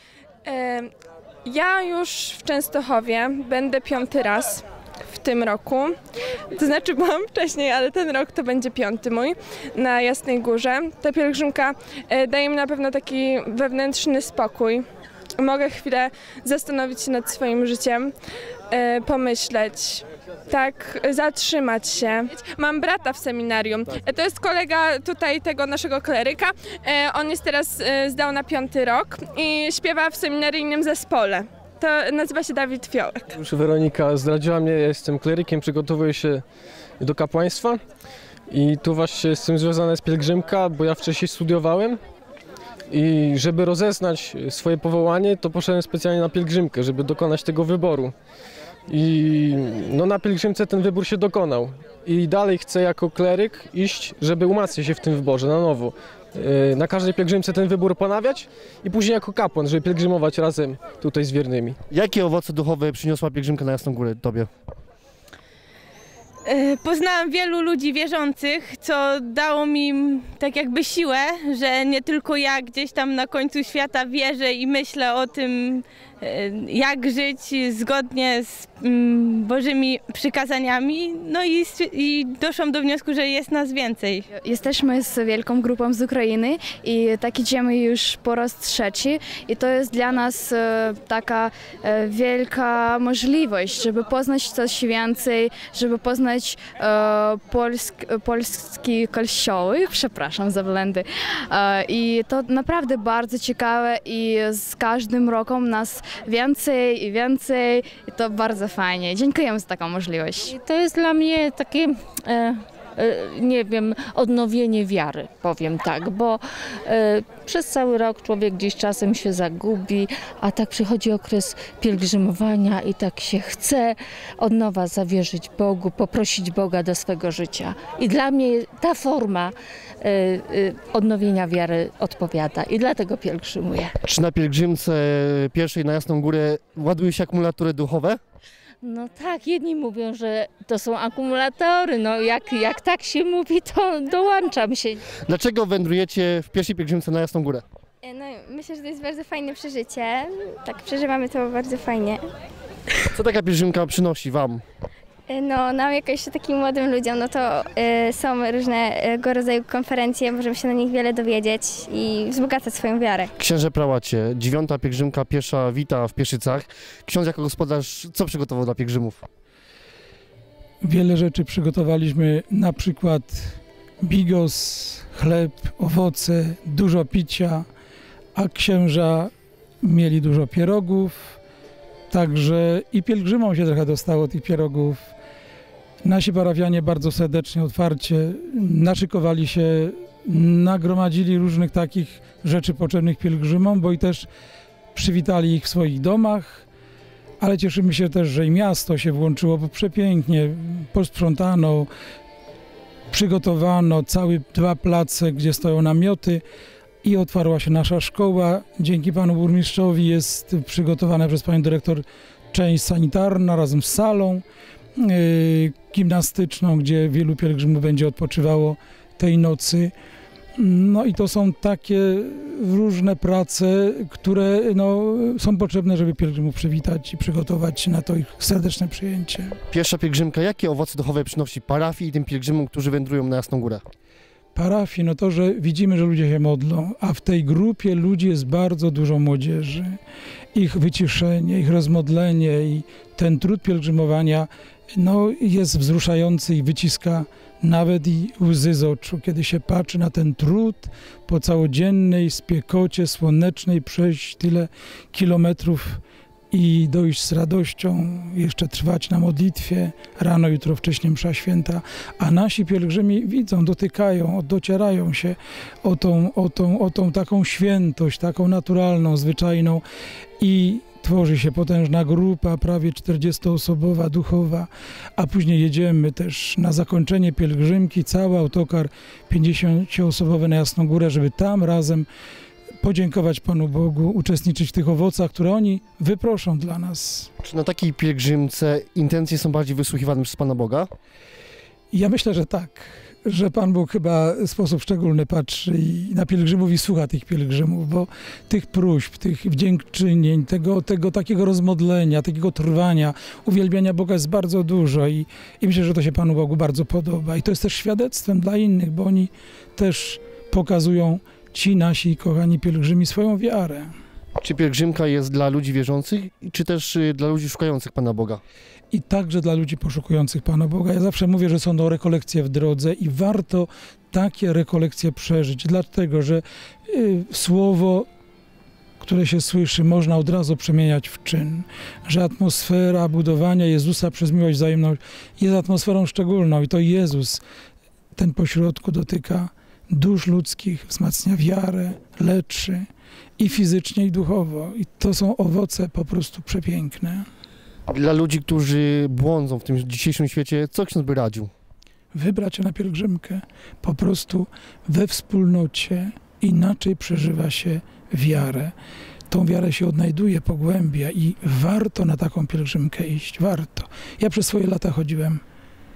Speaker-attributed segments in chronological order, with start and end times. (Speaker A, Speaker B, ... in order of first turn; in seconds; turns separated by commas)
Speaker A: 0.5-0.9, Speaker A: 1.4-5.9, Speaker A: 6.5-14.8, Speaker A: 15.4-18.1, Speaker A: 18.7-33.3, Speaker B: 33.4-36.4, Speaker B: 37.0-37.8, Speaker B: 38.5-42.0, Speaker B: 42.9-48.1, Speaker B: 48.9-61.8, Speaker C: 61.9-64.5, Speaker D: 66.5-84.3, Speaker E: 84.3-110.5, Speaker F: 110.5-133.9, Speaker C: 134.0-138.2, Speaker F: 138.8-145.0, Speaker C: 145.2-147.6, Speaker G: 148.0-152.2, Speaker C: 153.1-154.6, Speaker G: 155.3-163.3, Speaker C: 163.4-169.2, Speaker H: 170.8-177.7, Speaker H: 178.3-179.3, Speaker H: 179.8-181.4, Speaker H: 182.1-185.1, Speaker H: 186.0-194.3, Speaker H: 194.9-196.7, Speaker H: 197.4-201.9, Speaker H: 203.1-206.4, Speaker H: 207.0-214.4, Speaker H: 215.0-219.9, Speaker H: 220.6-229.6, Speaker C: 229.7-233.8, Speaker H: 234.6-240.0, Speaker H: 240.5-269.8, Speaker H: 270.4-282.1, Speaker H: 282.8-287.3, Speaker C: 287.4-290.9, Speaker H: 291.9-313.9, Speaker C: 314.4-318.4, Speaker H: 318.9-328.1, Speaker H: 329.0-337.4, Speaker H: 338.2-342.9, Speaker H: 343.4-347.2, Speaker C: 347.9-351.5, Speaker H: 352.1-358.7, Speaker H: 359.3-365.4